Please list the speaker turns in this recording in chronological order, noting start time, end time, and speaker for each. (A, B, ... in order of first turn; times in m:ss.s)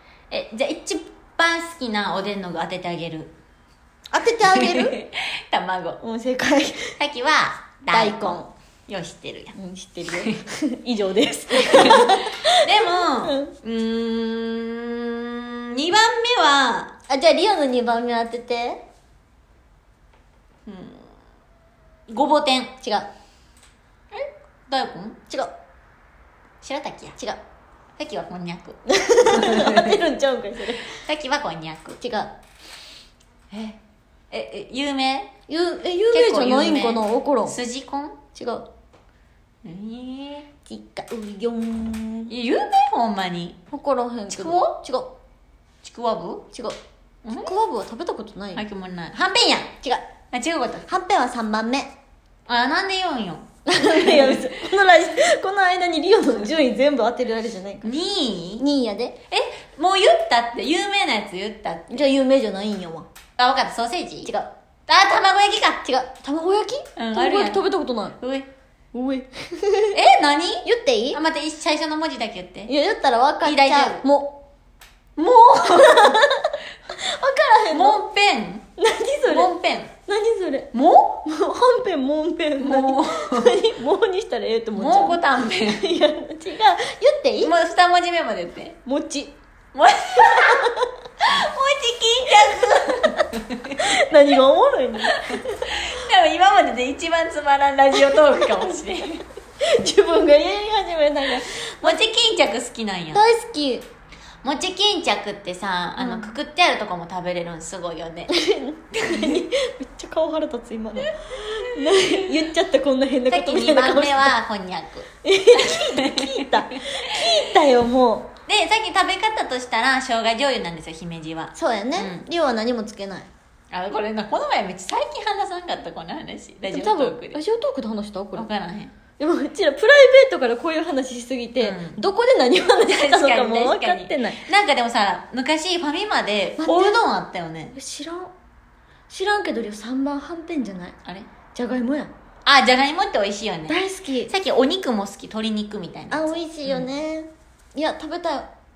0:00.3-0:03.3 A
0:04.1-0:05.0 B
0:04.4-0:06.0 A
0:06.0-0:06.9 B
0:07.0-0:09.6 A
0:07.9-0:08.5 B
0:09.6-0:13.5 B
0:10.1-0:10.4 A
0:11.6-0:16.9 A
0:17.1-0:18.8 B
0:20.7-0:21.1 A
0:22.1-0:22.8 A
0:22.8-0:23.1 B
0:24.1-0:25.2 A
0:26.6-0:27.2 A
0:28.0-0:28.8 A
0:28.9-0:31.0 B
0:29.3-0:30.0 A
0:30.8-0:32.0 A
0:32.0-0:32.3 B
0:33.5-0:33.8 A
0:34.3-0:35.3 A
0:35.5-0:37.6 B
0:36.1-0:38.2 A
0:38.4-0:38.7 B
0:39.6-0:40.5 A
0:40.7-0:42.3 B
0:42.3-0:43.6 A
0:43.7-0:45.1 B
0:44.3-0:44.8 A
0:45.8-0:46.5 A
0:47.2-0:47.5 A
0:47.3-0:48.6 B
0:48.5-0:49.8 A
0:50.3-0:50.9 A
0:50.9-0:51.9 B
0:52.5-0:54.5 A
0:53.7-0:57.9 B
0:57.8-0:58.6 A
0:58.6-0:59.2 B
0:59.3-1:02.1 A
1:01.9-1:03.1 B
1:03.4-1:04.3 A
1:04.2-1:04.5 B
1:04.9-1:05.8 A
1:05.8-1:08.2 B
1:07.0-1:07.7 A
1:08.2-1:08.5 A
1:08.9-1:10.0 B
1:09.9-1:12.7 A
1:10.6-1:11.2 B
1:12.7-1:14.4 B
1:13.4-1:14.1 A
1:15.2-1:16.2 A
1:15.6-1:16.4 B
1:17.0-1:18.0 B
1:17.7-1:18.7 A
1:18.8-1:19.5 B
1:19.3-1:19.9 A
1:20.1-1:20.7 B
1:20.7-1:21.2 A
1:21.2-1:27.5 B
1:22.6-1:23.6 A
1:24.8-1:25.8 A
1:27.4-1:28.8 A
1:28.8-1:29.4 B
1:29.7-1:30.7 A
1:31.2-1:34.0 A
1:33.8-1:35.4 B
1:35.1-1:39.2 A
1:39.6-1:42.0 B
1:41.4-1:43.2 A
1:43.1-1:43.9 B
1:44.4-1:48.3 A
1:46.0-1:46.3 B
1:48.3-1:54.4 B
1:51.8-1:52.2 A
1:53.3-1:57.5 A
1:55.2-1:58.3 B
1:58.5-2:02.2 A
2:01.5-2:03.3 B
2:03.7-2:07.4 A
2:06.7-2:08.5 B
2:08.4-2:08.9 A
2:09.2-2:14.4 B
2:11.6-2:12.0 A
2:12.8-2:17.8 A
2:16.6-2:17.0 B
2:17.7-2:18.3 B
2:19.1-2:21.0 B
2:21.6-2:22.1 B
2:22.4-2:26.9 A
2:23.7-2:24.3 B
2:26.1-2:28.5 B